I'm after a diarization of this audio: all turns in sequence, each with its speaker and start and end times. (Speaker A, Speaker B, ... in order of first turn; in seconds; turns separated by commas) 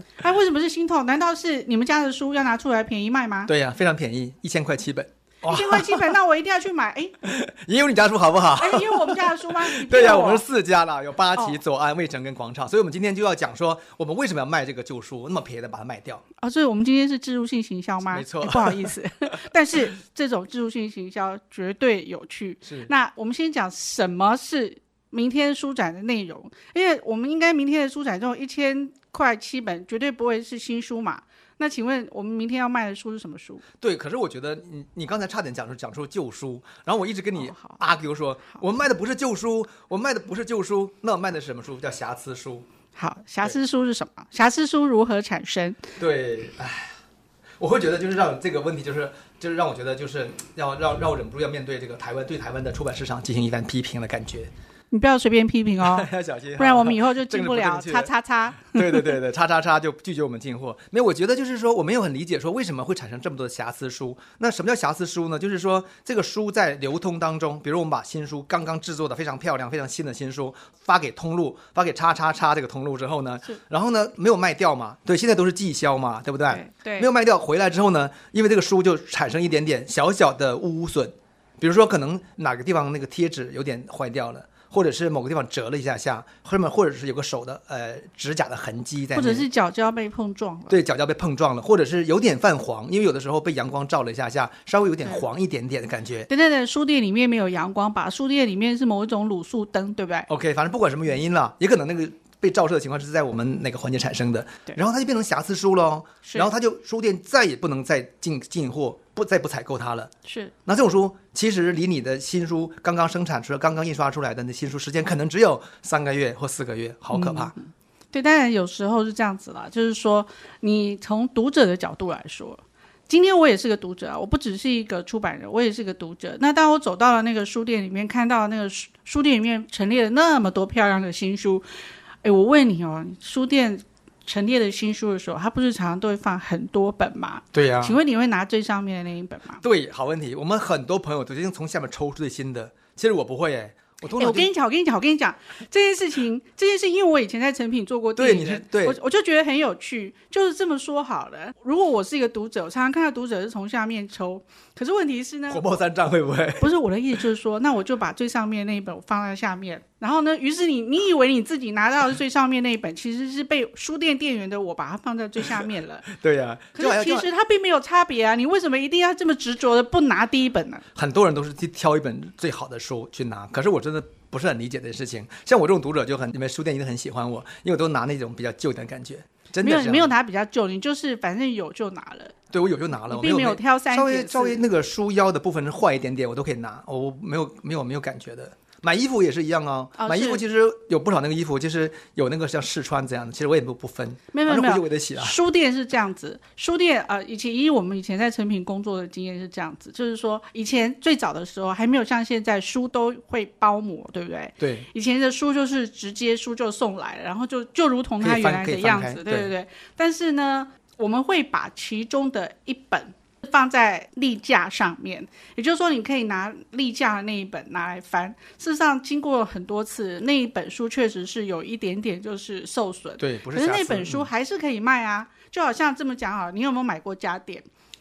Speaker A: 0.2-3.5, Speaker B: 3.5-6.2, Speaker A: 5.4-7.1, Speaker B: 7.2-16.2, Speaker A: 8.6-10.4, Speaker A: 16.4-33.6, Speaker B: 18.1-18.9, Speaker B: 22.6-22.9, Speaker B: 33.8-42.6, Speaker A: 37.4-37.8, Speaker A: 43.0-45.9, Speaker B: 46.0-46.9, Speaker B: 47.6-54.5, Speaker A: 54.9-59.2, Speaker B: 55.8-58.1, Speaker B: 58.6-89.5, Speaker A: 76.5-77.1, Speaker A: 89.1-90.8, Speaker B: 90.7-96.3, Speaker A: 96.3-100.3, Speaker B: 100.3-110.1, Speaker A: 106.2-106.5, Speaker A: 110.2-110.5, Speaker B: 110.7-117.5, Speaker A: 117.1-131.6, Speaker A: 132.2-139.6, Speaker B: 137.5-138.0, Speaker B: 139.6-144.5, Speaker A: 144.2-155.7, Speaker B: 148.2-149.0, Speaker B: 155.5-156.7, Speaker A: 156.6-166.1, Speaker B: 165.6-167.3, Speaker A: 166.7-170.8, Speaker B: 170.9-180.1, Speaker A: 179.6-182.3, Speaker B: 182.5-195.4, Speaker A: 183.1-184.6, Speaker A: 189.9-190.4, Speaker A: 194.3-227.6, Speaker B: 204.6-204.8, Speaker B: 208.2-209.5, Speaker B: 223.2-224.3